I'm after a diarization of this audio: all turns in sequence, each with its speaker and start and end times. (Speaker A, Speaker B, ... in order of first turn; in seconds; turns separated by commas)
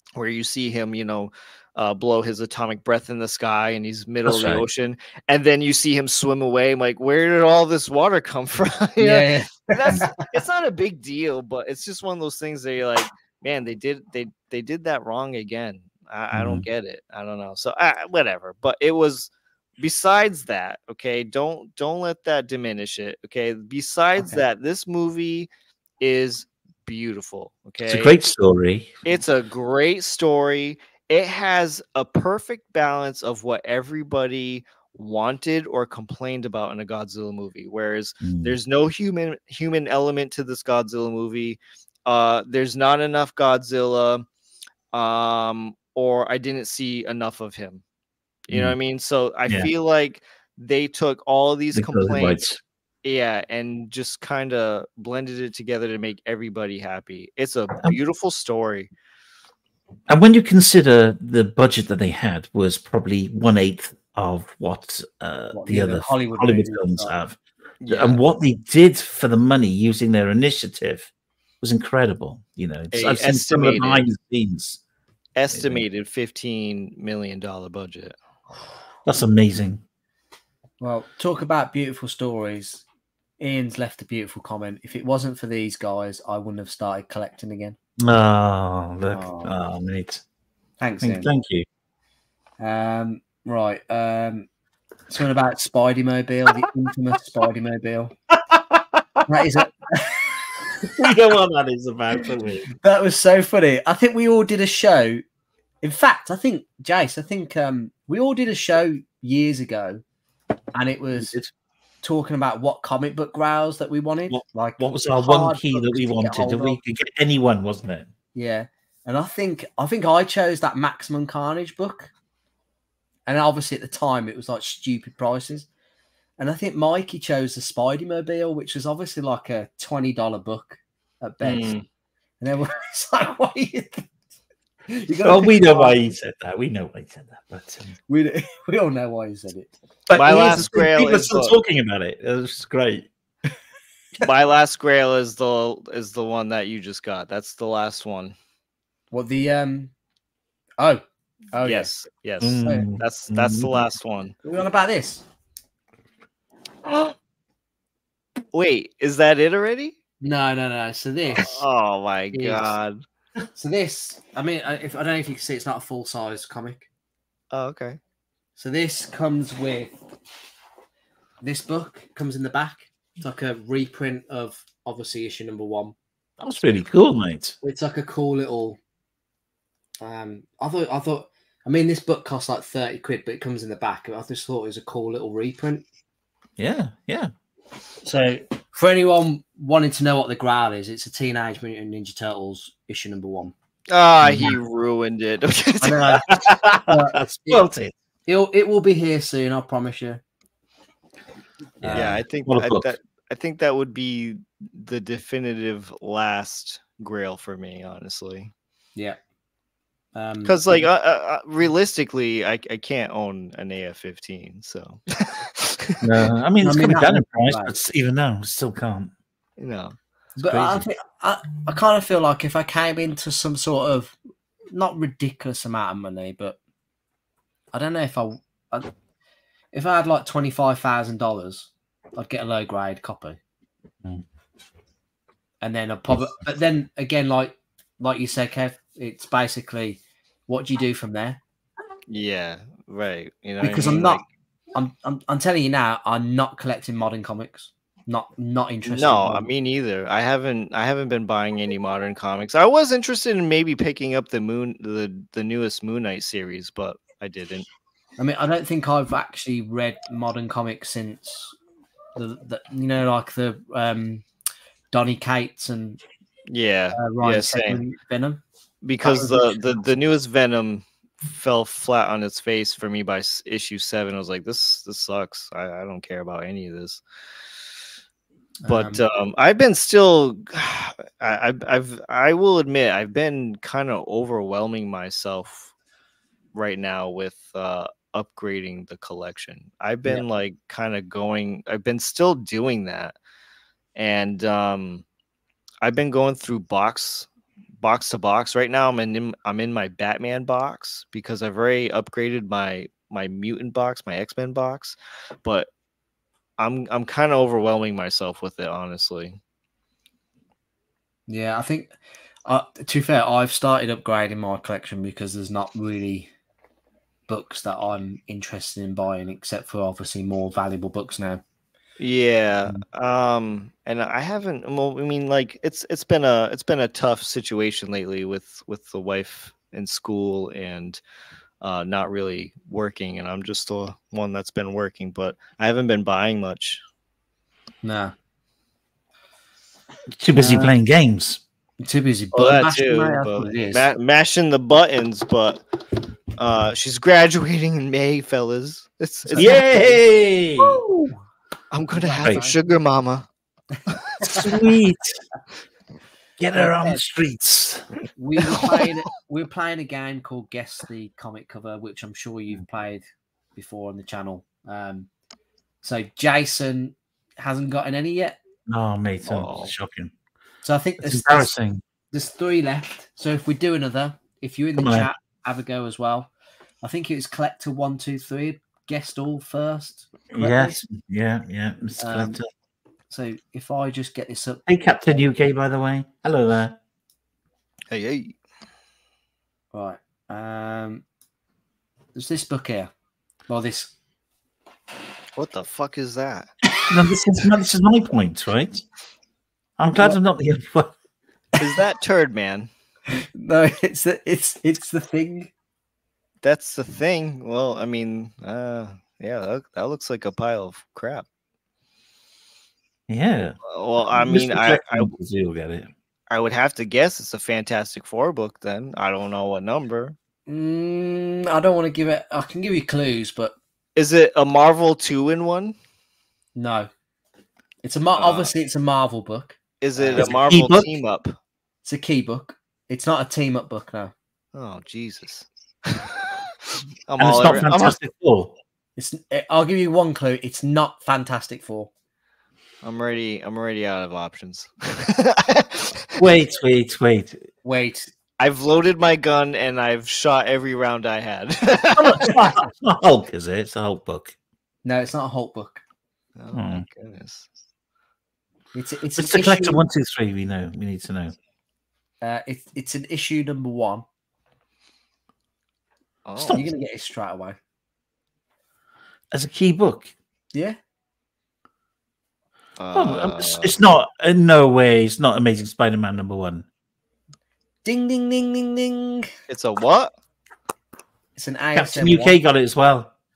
Speaker A: 0.1-28.1, Speaker B: 4.2-4.7, Speaker C: 9.0-10.3, Speaker B: 16.3-16.6, Speaker B: 27.8-29.0, Speaker A: 29.1-44.3, Speaker B: 38.2-38.6, Speaker A: 44.9-47.8, Speaker A: 48.5-58.9, Speaker B: 48.5-48.8, Speaker B: 51.7-52.6, Speaker B: 60.1-74.8, Speaker C: 65.5-67.1, Speaker A: 67.8-68.2, Speaker A: 72.9-74.1, Speaker A: 75.4-78.2, Speaker B: 75.5-75.8, Speaker B: 79.0-79.8, Speaker C: 80.8-82.8, Speaker C: 83.4-87.8, Speaker B: 88.0-90.2, Speaker C: 89.1-89.6, Speaker C: 90.8-91.3, Speaker B: 91.0-91.7, Speaker C: 92.6-94.5, Speaker C: 95.1-98.1, Speaker B: 98.3-99.4, Speaker C: 99.3-101.1, Speaker B: 100.8-102.7, Speaker C: 102.7-105.2, Speaker C: 105.8-110.0, Speaker C: 110.7-111.3, Speaker B: 111.2-111.5, Speaker C: 112.0-116.8, Speaker B: 114.3-118.1, Speaker C: 118.3-122.1, Speaker C: 123.3-125.7, Speaker C: 126.4-131.8, Speaker A: 131.4-131.8, Speaker C: 132.4-134.1, Speaker C: 134.9-136.1, Speaker B: 135.2-137.9, Speaker C: 138.1-139.7, Speaker B: 140.1-143.1, Speaker A: 140.1-141.6, Speaker A: 144.2-148.3, Speaker C: 149.1-149.9, Speaker C: 151.5-151.9, Speaker A: 151.6-154.3, Speaker B: 152.4-153.8, Speaker C: 154.4-155.2, Speaker A: 158.5-159.9, Speaker C: 160.2-161.6, Speaker A: 161.4-163.0, Speaker C: 162.3-162.7, Speaker C: 163.6-166.9, Speaker A: 167.5-168.0, Speaker C: 168.6-169.9, Speaker C: 171.4-175.9, Speaker B: 176.4-177.6, Speaker C: 177.6-178.8, Speaker C: 180.0-185.8, Speaker B: 186.6-187.3, Speaker C: 188.0-193.5, Speaker A: 193.9-196.3, Speaker B: 194.2-194.6, Speaker C: 195.8-197.7, Speaker B: 196.2-197.9, Speaker C: 198.3-200.2, Speaker C: 201.8-202.2, Speaker B: 201.8-202.9, Speaker A: 201.9-208.5, Speaker C: 210.1-210.8, Speaker A: 210.4-216.0, Speaker B: 216.0-219.1, Speaker C: 216.6-217.7, Speaker A: 219.6-220.0, Speaker B: 220.4-220.8, Speaker C: 220.4-224.2, Speaker C: 224.7-226.6, Speaker C: 227.7-228.9, Speaker C: 229.7-233.4, Speaker C: 235.6-241.4, Speaker A: 242.1-244.2, Speaker C: 243.6-244.2, Speaker C: 244.7-249.5, Speaker A: 248.8-257.7, Speaker C: 258.2-261.6, Speaker C: 262.1-264.2, Speaker C: 264.9-266.0, Speaker A: 266.5-267.8, Speaker C: 266.9-268.4, Speaker A: 268.8-277.0, Speaker C: 269.0-269.9, Speaker C: 278.6-279.0, Speaker A: 278.7-285.7, Speaker A: 286.5-293.2, Speaker A: 293.9-295.0, Speaker A: 295.8-297.3, Speaker A: 297.8-305.7, Speaker A: 306.6-309.4, Speaker C: 311.3-311.9, Speaker C: 312.4-316.3, Speaker C: 317.3-321.4, Speaker A: 322.0-331.0, Speaker A: 331.6-336.8, Speaker C: 337.8-338.1, Speaker B: 340.1-341.4, Speaker C: 340.4-340.7, Speaker C: 341.8-343.9, Speaker A: 342.3-345.6, Speaker A: 346.4-349.6, Speaker C: 349.3-350.0, Speaker B: 349.4-350.8, Speaker C: 350.7-351.2, Speaker A: 351.7-353.3, Speaker C: 351.9-352.6, Speaker C: 353.8-354.5, Speaker A: 353.9-354.2, Speaker B: 354.2-355.2, Speaker B: 356.4-357.9, Speaker C: 356.5-357.0, Speaker C: 358.2-363.1, Speaker C: 363.6-365.1, Speaker C: 365.8-368.4, Speaker B: 368.7-370.1, Speaker A: 369.3-369.7, Speaker C: 370.6-371.5, Speaker B: 371.0-371.8, Speaker C: 372.1-376.3, Speaker B: 374.8-375.1, Speaker C: 376.8-380.8, Speaker B: 380.3-382.4, Speaker C: 382.0-382.4, Speaker C: 383.1-384.6, Speaker B: 384.7-386.8, Speaker A: 387.9-388.4, Speaker C: 389.7-391.1, Speaker C: 392.1-392.9, Speaker C: 393.5-393.9, Speaker A: 395.4-396.5, Speaker B: 396.8-398.8, Speaker B: 399.8-400.9, Speaker C: 399.9-400.2, Speaker A: 401.6-402.7, Speaker C: 403.1-405.5, Speaker A: 406.4-411.3, Speaker B: 413.1-413.6, Speaker A: 413.7-415.1, Speaker B: 414.1-415.9, Speaker A: 416.3-420.1, Speaker C: 420.5-423.6, Speaker A: 423.9-425.7, Speaker C: 426.6-426.9, Speaker C: 427.8-430.4, Speaker A: 428.2-428.5, Speaker A: 429.8-431.4, Speaker B: 430.1-430.9, Speaker C: 431.9-434.1, Speaker A: 434.6-438.0, Speaker B: 437.2-438.5, Speaker C: 439.0-441.9, Speaker A: 442.8-446.3, Speaker B: 446.2-447.5, Speaker C: 447.6-448.1, Speaker A: 448.4-452.4, Speaker B: 451.9-454.4, Speaker C: 454.9-455.8, Speaker A: 456.4-457.5, Speaker B: 456.5-456.9, Speaker C: 458.7-459.8, Speaker B: 459.2-461.4, Speaker C: 462.2-464.1, Speaker A: 466.3-466.6, Speaker B: 466.4-466.6, Speaker C: 466.5-467.6, Speaker B: 469.3-470.1, Speaker A: 472.8-473.8, Speaker B: 472.9-476.6, Speaker C: 477.9-479.3, Speaker A: 479.5-480.1, Speaker C: 481.4-482.4, Speaker B: 481.7-483.1